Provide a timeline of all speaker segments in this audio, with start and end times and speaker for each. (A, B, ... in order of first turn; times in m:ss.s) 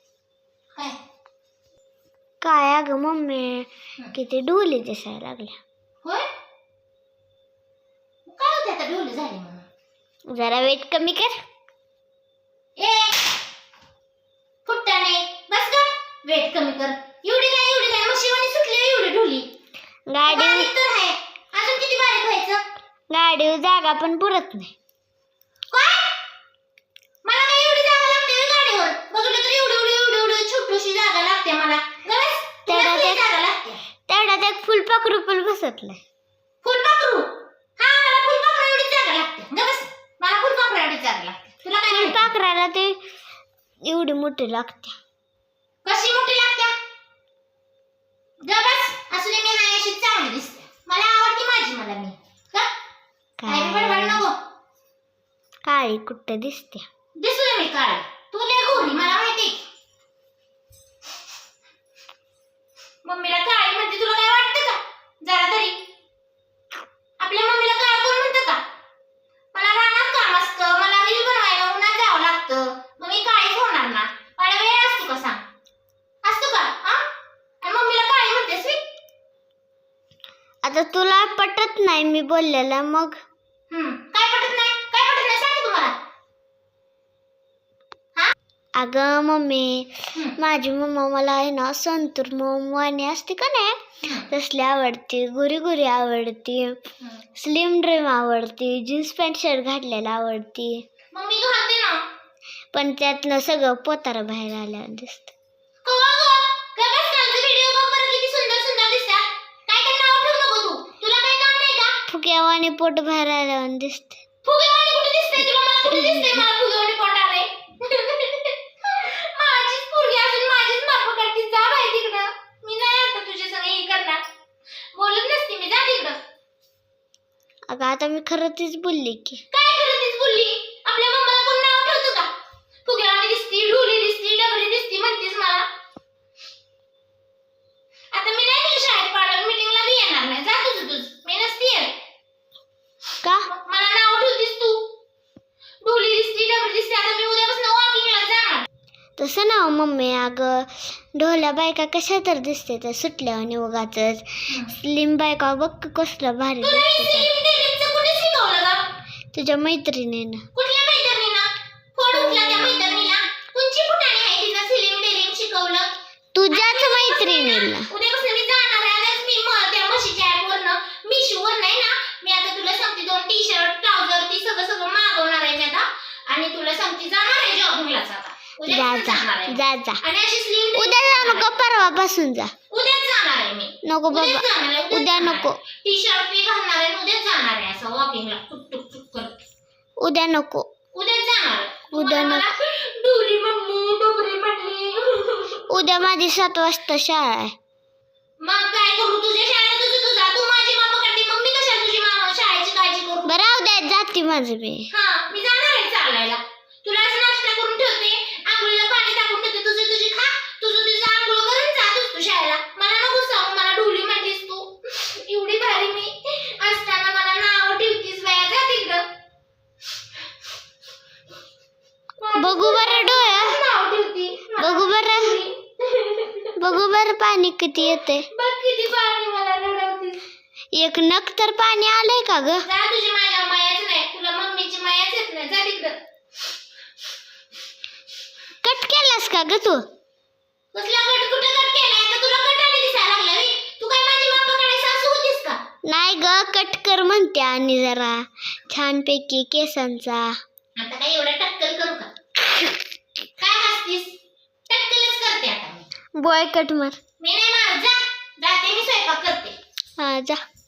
0:02.4-0:05.6 A
0:08.2-0:09.7 B
0:10.3-0:11.4 A
0:12.8-0:13.1 B
0:14.6-0:19.5 B
0:20.1-0:20.7 A
0:20.2-0:22.6 B
0:23.1-0:24.7 A
0:25.7-0:26.0 B
0:27.2-0:33.8 B
0:32.7-0:33.3 A
0:34.1-0:36.0 A
0:36.6-0:42.3 B
0:41.9-0:43.0 A
0:43.8-0:44.9 A
0:45.8-0:46.7 B
0:48.4-0:52.7 B
0:53.4-0:54.2 A
0:53.5-0:54.3 B
0:55.7-0:56.8 A
0:57.2-0:59.6 B
1:03.0-1:05.8 B
1:07.2-1:08.6 B
1:09.5-1:15.4 B
1:16.2-1:17.0 B
1:17.6-1:18.8 B
1:20.6-1:23.2 A
1:23.7-1:25.9 B
1:28.8-1:36.8 A
1:34.0-1:34.3 B
1:37.4-1:40.8 A
1:41.1-1:42.0 B
1:42.7-1:45.3 A
1:45.8-1:51.9 B
1:52.1-1:54.2 A
1:54.4-2:04.2 B
1:55.8-1:56.5 A
2:04.9-2:06.2 B
2:07.7-2:09.4 A
2:09.5-2:12.3 B
2:12.8-2:15.6 B
2:18.1-2:21.9 B
2:23.2-2:23.5 A
2:23.5-2:24.8 B
2:25.8-2:28.6 B
2:29.2-2:37.3 A
2:36.6-2:38.8 B
2:39.3-2:40.4 A
2:40.6-2:45.9 B
2:42.1-2:42.8 A
2:46.3-2:47.9 A
2:46.5-3:01.5 B
2:58.7-3:00.0 A
3:00.8-3:02.5 A
3:02.7-3:09.4 B
3:03.8-3:05.6 A
3:10.0-3:10.7 A
3:10.9-3:15.6 B
3:11.9-3:12.5 A
3:15.7-3:17.5 A
3:18.4-3:23.3 B
3:23.2-3:24.9 A
3:24.9-3:39.0 B
3:42.2-3:46.5 B
3:42.4-3:43.6 A
3:44.6-3:45.4 A
3:46.6-3:48.3 A
3:48.3-3:50.2 B
3:50.8-3:52.7 A
3:52.6-3:56.0 B
3:58.6-3:59.8 A
4:00.7-4:05.6 B
4:05.8-4:10.4 A
4:10.8-4:12.1 B
4:13.4-4:14.2 B
4:14.7-4:15.8 B
4:16.2-4:17.0 A
4:17.2-4:19.5 B
4:20.0-4:20.4 A